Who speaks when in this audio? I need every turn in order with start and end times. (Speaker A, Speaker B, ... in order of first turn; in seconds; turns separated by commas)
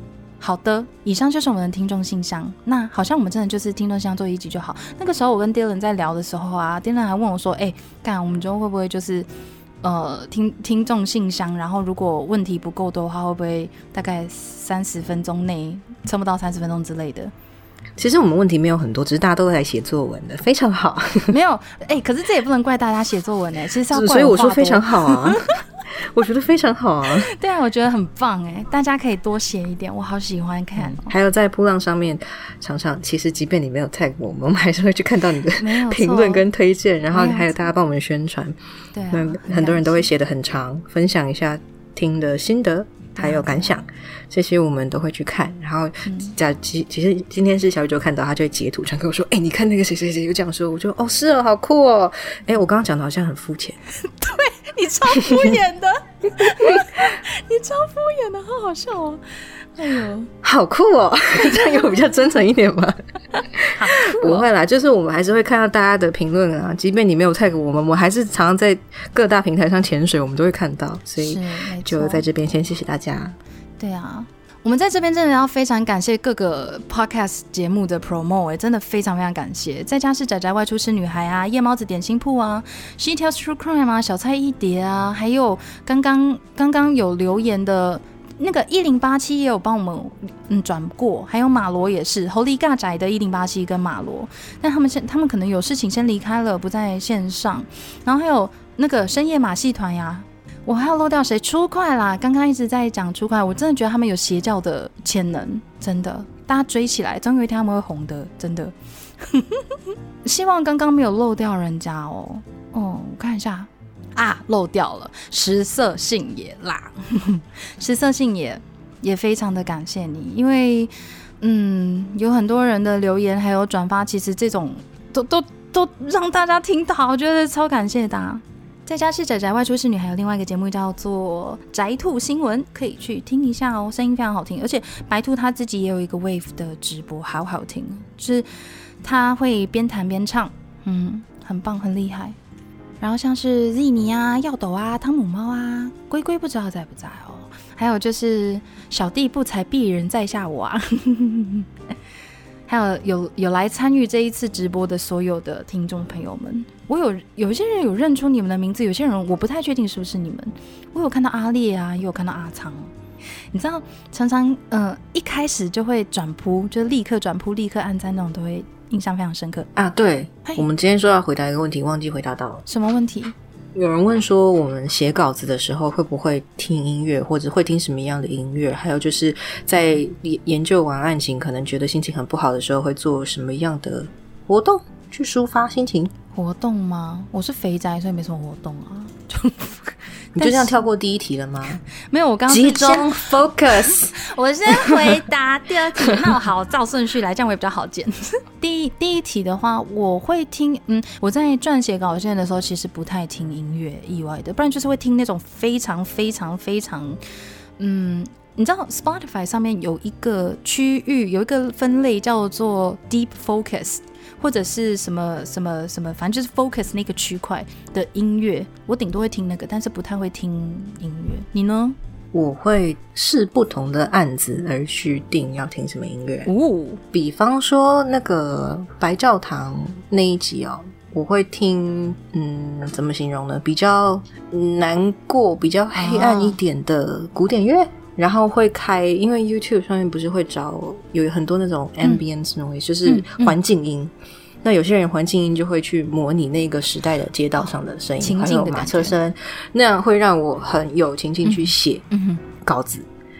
Speaker A: 0.4-9.3, Speaker A: 9.8-17.3, Speaker B: 18.0-21.3, Speaker A: 21.3-25.4, Speaker B: 23.9-27.3, Speaker A: 27.1-31.1, Speaker B: 30.8-38.5, Speaker A: 35.6-36.5, Speaker A: 37.1-37.6, Speaker A: 38.9-40.1, Speaker B: 39.1-53.8, Speaker A: 43.2-43.7, Speaker A: 46.0-46.3, Speaker A: 54.0-59.2, Speaker A: 59.8-60.3, Speaker B: 60.4-63.0, Speaker A: 63.4-64.5, Speaker B: 63.5-73.4, Speaker A: 71.2-72.2, Speaker A: 73.8-109.6, Speaker A: 110.2-138.5, Speaker A: 139.0-142.3, Speaker A: 143.0-151.7, Speaker A: 152.7-162.9, Speaker A: 163.5-169.7, Speaker B: 169.8-172.6, Speaker A: 172.7-173.3, Speaker B: 173.7-186.1, Speaker A: 186.3-190.8, Speaker B: 190.3-191.8, Speaker A: 192.0-207.2, Speaker B: 192.5-194.2, Speaker B: 194.7-195.2, Speaker A: 207.8-222.0, Speaker B: 222.3-226.5, Speaker A: 226.4-227.0, Speaker B: 227.1-244.1, Speaker A: 235.9-236.6, Speaker A: 243.1-243.5, Speaker B: 244.6-252.0, Speaker A: 248.2-249.2, Speaker A: 251.4-252.4, Speaker B: 252.6-253.1